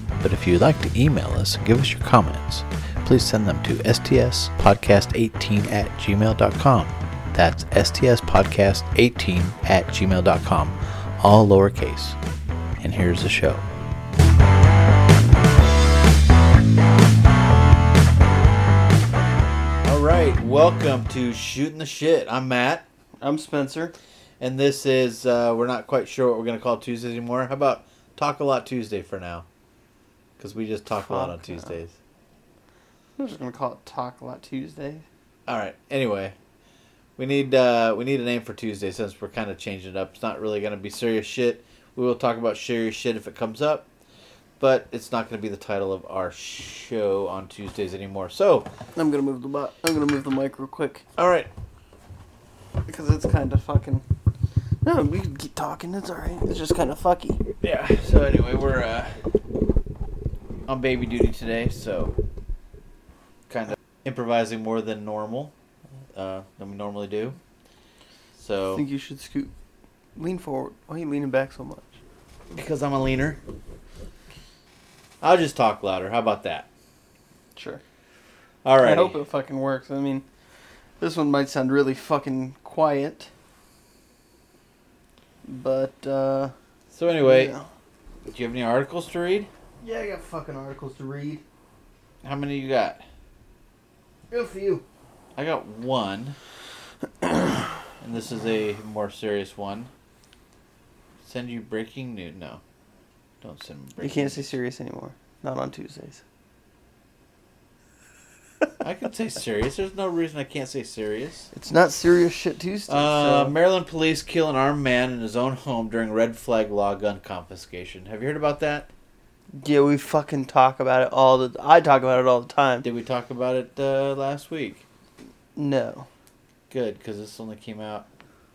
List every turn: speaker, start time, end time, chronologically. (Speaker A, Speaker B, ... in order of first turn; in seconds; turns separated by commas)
Speaker A: 0.2-12.2, Speaker A: 12.8-13.6, Speaker A: 19.8-22.8, Speaker B: 23.2-23.9, Speaker A: 24.4-29.4, Speaker A: 30.4-31.9, Speaker B: 31.0-31.7, Speaker B: 33.2-35.0, Speaker A: 35.5-36.3, Speaker A: 37.2-43.9, Speaker A: 44.6-48.7, Speaker B: 49.0-51.0, Speaker A: 51.1-51.5, Speaker B: 52.9-54.0, Speaker B: 54.8-57.4, Speaker A: 57.6-59.2, Speaker A: 60.6-62.1, Speaker A: 63.5-65.5, Speaker A: 66.1-67.4, Speaker A: 68.4-68.8, Speaker B: 68.7-69.5, Speaker B: 70.2-71.9, Speaker A: 72.5-73.4, Speaker A: 75.2-76.7, Speaker A: 78.6-79.2, Speaker B: 78.8-80.2, Speaker B: 81.0-83.3, Speaker B: 85.5-86.5, Speaker A: 86.9-87.5, Speaker B: 87.2-87.7, Speaker A: 88.3-89.5, Speaker B: 89.8-91.4, Speaker A: 92.2-93.0, Speaker B: 94.3-94.8, Speaker A: 95.3-96.4, Speaker A: 98.0-99.9, Speaker A: 101.2-102.6, Speaker A: 103.4-104.4, Speaker B: 104.0-106.2, Speaker A: 108.8-111.5, Speaker B: 111.5-113.5, Speaker A: 112.9-118.9, Speaker B: 119.5-122.9, Speaker A: 122.8-124.8, Speaker B: 125.5-126.1, Speaker A: 126.7-128.1